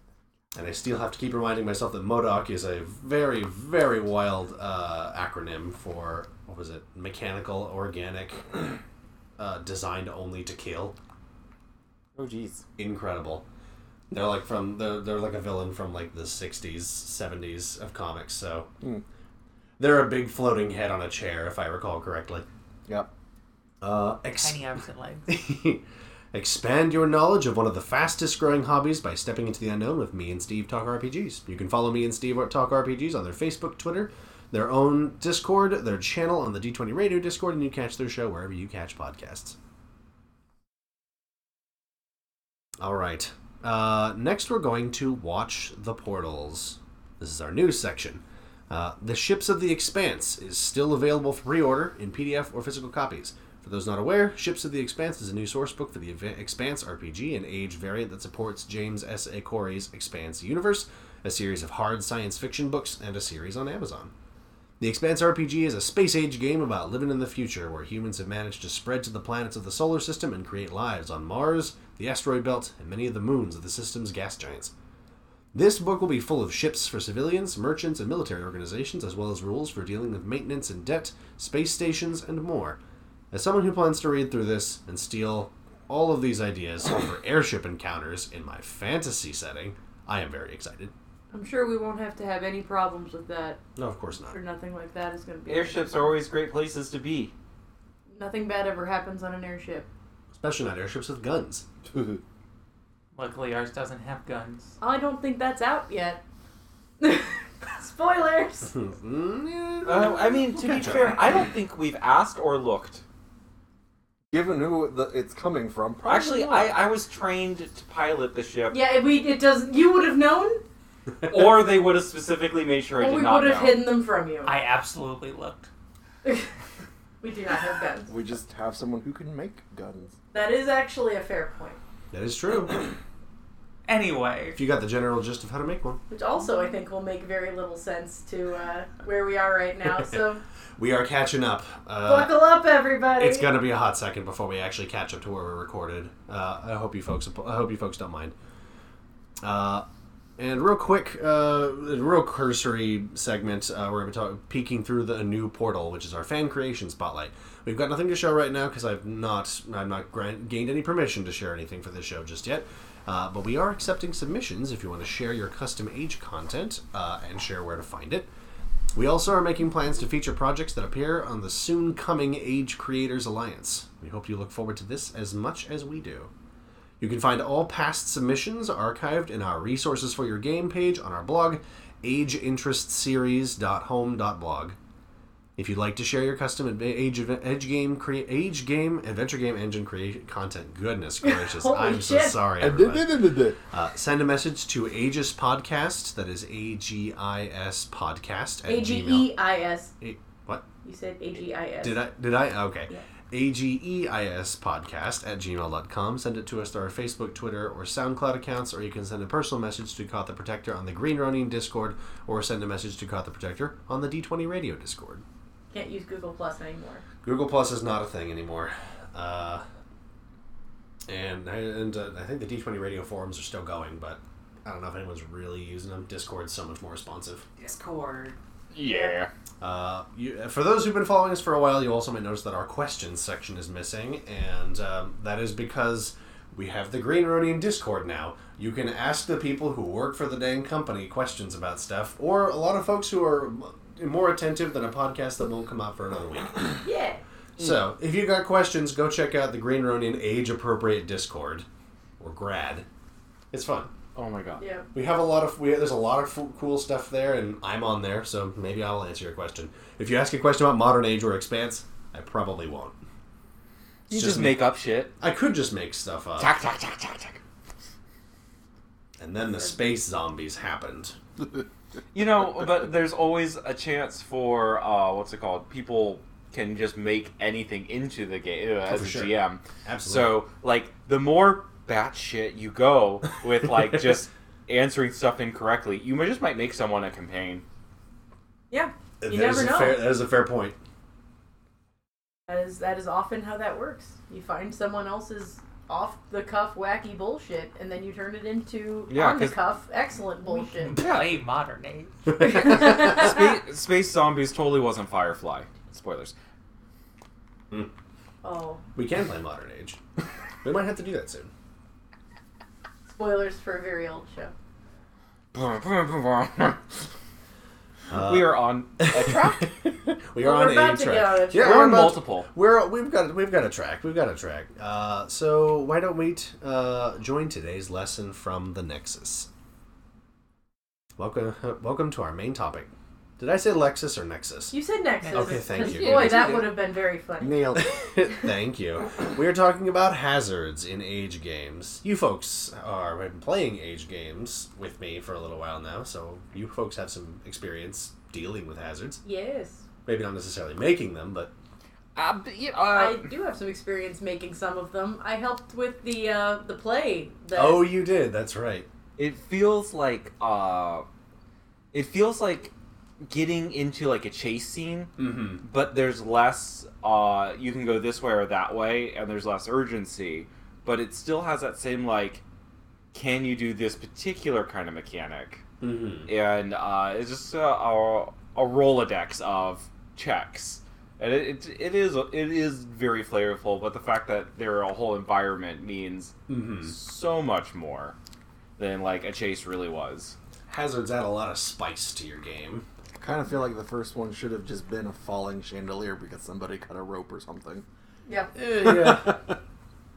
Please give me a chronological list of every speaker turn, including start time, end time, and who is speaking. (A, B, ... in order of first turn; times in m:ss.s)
0:00.5-0:08.6 A
0:09.4-0:11.0 A
0:12.2-0:12.6 B
0:12.8-0:13.4 A
0:14.1-0:18.7 A
0:19.8-0:22.4 A
0:23.8-0:24.6 A
0:24.4-0:25.3 C
0:25.3-0:39.6 A
0:42.8-1:04.1 A
1:04.8-1:14.7 A
1:15.5-1:22.8 A
1:23.3-1:30.9 A
1:31.3-1:33.6 D
1:33.8-1:34.4 A
1:34.3-1:36.1 D
1:35.5-1:37.3 B
1:38.1-1:39.9 D
1:40.3-1:41.6 A
1:41.9-1:42.2 E
1:43.1-1:44.7 C
1:44.8-1:46.2 D
1:47.0-1:48.7 D
1:48.7-1:51.2 A
1:49.8-1:53.0 B
1:54.3-1:56.8 E
1:56.0-1:58.8 B
1:58.7-2:00.6 D
2:01.2-2:03.8 B
2:03.0-2:04.5 D
2:04.4-2:05.7 C
2:06.2-2:06.5 D
2:07.2-2:08.1 D
2:08.1-2:10.1 E
2:10.3-2:11.8 D
2:12.1-2:12.9 A
2:13.9-2:14.6 C
2:14.5-2:16.0 A
2:16.1-2:20.4 D
2:20.8-2:22.4 A
2:22.0-2:23.5 D
2:23.2-2:28.3 A
2:29.4-2:29.8 A
2:30.4-2:48.3 A
2:48.9-2:56.3 A
2:57.0-3:04.8 A
3:05.6-3:19.3 A
3:11.2-3:12.4 D
3:12.6-3:13.6 E
3:18.6-3:19.9 D
3:20.0-3:20.6 A
3:20.8-3:22.0 D
3:21.8-3:35.2 A
3:35.7-3:37.0 D
3:37.2-3:39.6 A
3:41.1-3:47.4 A
3:47.6-3:48.4 C
3:48.7-3:49.3 B
3:49.6-4:06.8 A
4:06.8-4:07.2 D
4:07.6-4:11.6 A
4:12.2-4:12.8 A
4:13.5-4:13.9 A
4:14.1-4:14.6 B
4:14.6-4:14.9 D
4:14.9-4:22.9 A
4:24.1-4:25.1 B
4:24.1-4:24.6 A
4:25.2-4:26.5 A
4:26.4-4:27.4 B
4:29.2-4:31.2 A
4:32.1-4:47.6 B
4:38.9-4:40.4 A
4:48.7-4:50.0 D
4:49.2-4:50.8 A
4:52.5-5:01.0 D
4:59.1-4:59.6 B
5:00.4-5:02.4 C
5:01.0-5:01.4 B
5:02.3-5:03.2 A
5:02.5-5:06.3 B
5:02.5-5:03.5 D
5:08.4-5:08.8 D
5:08.9-5:10.0 A
5:10.6-5:11.5 A
5:13.1-5:14.5 D
5:15.5-5:16.8 B
5:18.1-5:29.5 A
5:18.2-5:19.8 B
5:20.4-5:21.9 D
5:21.5-5:22.5 B
5:31.2-5:34.8 A
5:34.7-5:37.8 D
5:35.2-5:35.7 C
5:35.3-5:36.7 A
5:35.9-5:36.6 B
5:37.4-5:37.9 E
5:37.8-5:49.2 A
5:49.2-5:49.8 D
5:50.0-5:51.5 A
5:52.2-5:53.3 B
5:52.9-5:57.8 D
5:57.5-5:58.9 A
5:59.2-6:01.0 B
6:01.9-6:02.7 B
6:03.2-6:12.4 B
6:05.2-6:05.6 A
6:13.1-6:15.6 B
6:15.8-6:16.3 A
6:16.3-6:28.1 B
6:26.5-6:27.0 A
6:28.8-6:30.3 B
6:30.7-6:32.8 A
6:33.2-6:37.8 E
6:38.2-6:38.5 D
6:38.6-6:39.6 A